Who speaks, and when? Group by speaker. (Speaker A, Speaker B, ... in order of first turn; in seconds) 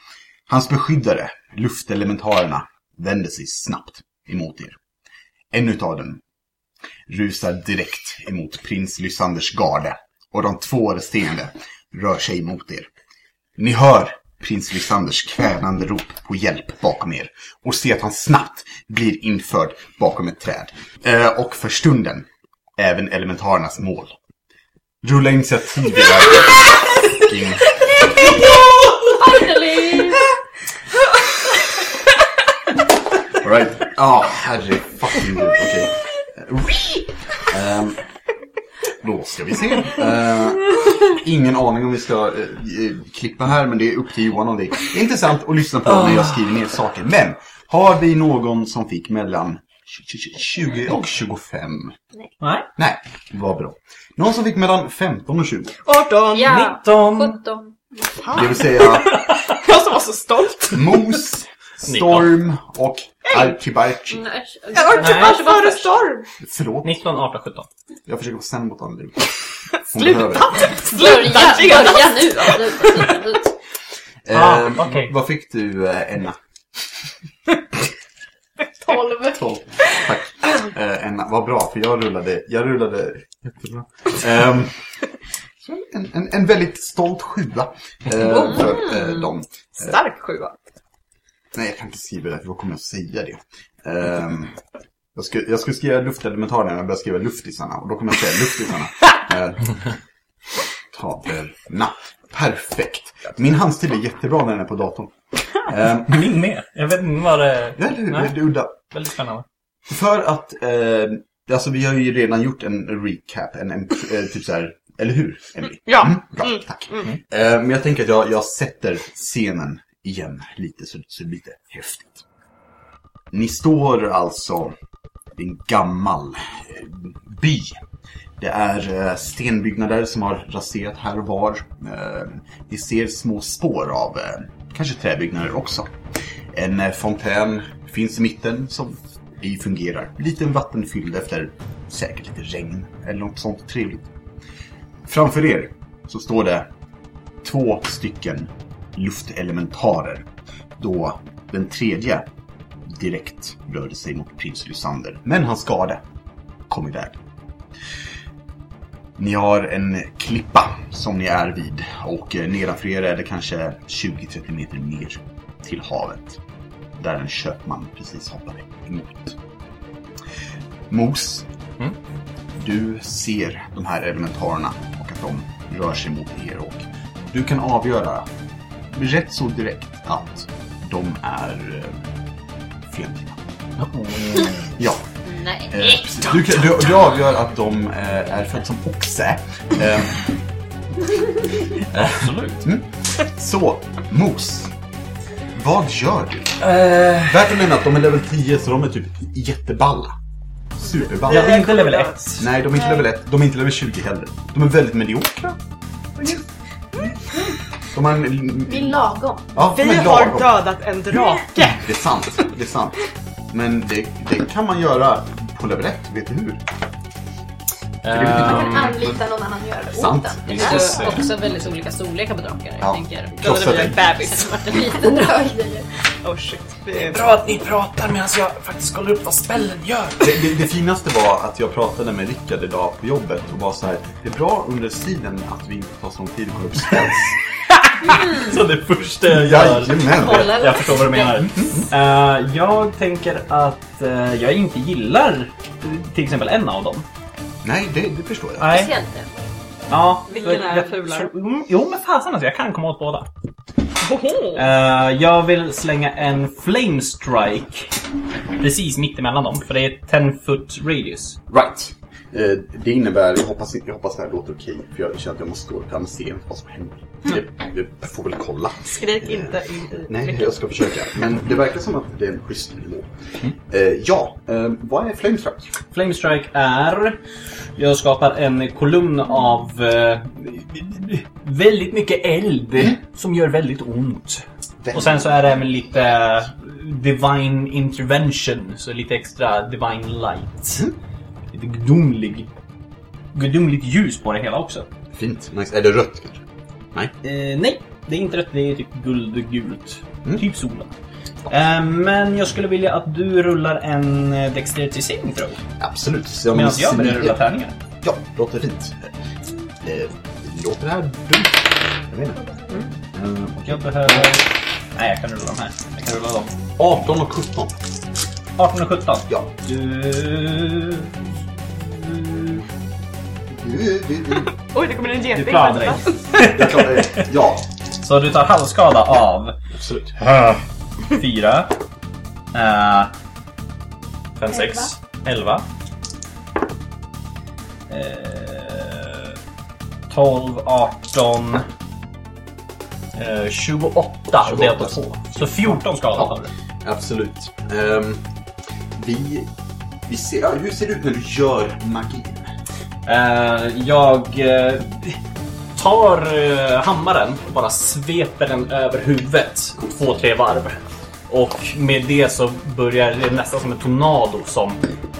Speaker A: 0.5-4.8, 5.5-6.2, 7.1-12.9, 13.6-22.2, 22.8-24.1, 25.0-27.7, 33.3-38.0, 39.0-52.0, 52.8-55.8, 58.3-59.2, 60.7-64.2, 66.4-67.0, 68.1-69.3, 69.9-70.7, 74.2-76.4, 79.2-84.8, 85.6-89.9, 91.5-94.6, 95.1-99.8, 100.9-106.3, 107.8-108.8, 109.9-122.2, 123.3-124.7, 125.4-127.8, 128.4-135.9, 136.5-144.1, 145.0-146.7, 147.4-150.2, 150.8-152.3, 152.9-156.0, 156.7-157.2, 159.2-166.4, 167.0-169.4, 170.9-171.5, 172.6-178.3, 178.9-182.1, 182.9-183.4, 184.7-185.1, 185.7-190.3, 192.6-194.7, 195.5-196.6, 197.2-200.2, 200.8-201.6, 202.4-205.6, 207.9-209.0, 209.5-210.5, 211.7-213.0, 213.5-216.6, 218.1-219.2, 219.9-221.2, 222.8-224.1, 230.2-237.4, 239.3-240.6, 241.6-241.9, 247.6-248.7, 261.5-273.1, 273.7-275.8, 284.8-285.3, 295.1-296.4, 305.8-309.1, 309.8-312.4, 313.1-314.3, 316.8-317.8, 319.3-319.5, 323.5-324.5, 326.4-327.6, 329.7-330.2, 344.4-348.2, 348.9-349.5, 350.1-352.5
Speaker B: 28.2-28.6, 55.8-56.6, 58.1-61.2, 64.7-66.3, 69.9-73.2, 88.2-88.7, 89.8-90.6, 115.8-117.1, 201.1-202.2, 209.7-211.9, 223.4-224.5, 226.2-227.3, 250.3-251.3, 254.0-254.6, 268.9-270.8, 324.5-326.2
Speaker C: 29.1-30.2, 56.3-57.7, 64.1-66.1, 70.8-73.5, 185.2-186.3, 220.6-223.6, 224.2-225.8, 240.1-241.7, 248.7-249.4
Speaker D: 45.9-46.3, 52.4-52.7, 56.4-57.4, 61.9-62.4, 65.0-65.5, 66.8-67.7, 74.3-75.1, 106.0-109.4, 183.8-184.7, 191.8-192.7, 196.6-197.4, 201.3-202.5, 218.0-219.0, 220.6-221.2, 227.0-230.4, 237.8-247.1, 248.6-248.9, 249.9-253.3, 254.5-258.0, 258.6-261.4, 275.9-277.2, 277.8-290.9, 291.5-292.5, 293.3-294.9, 297.2-300.9, 301.5-305.6, 306.5-307.7, 313.6-316.5, 318.6-322.6, 325.3-327.3, 328.0-329.6, 330.2-331.8, 332.5-333.1, 334.4-335.7, 337.9-339.4, 340.1-341.7, 343.1-346.5, 353.1-355.2, 355.8-364.8
Speaker E: 78.8-79.4, 208.7-209.5, 218.4-221.1, 225.0-225.5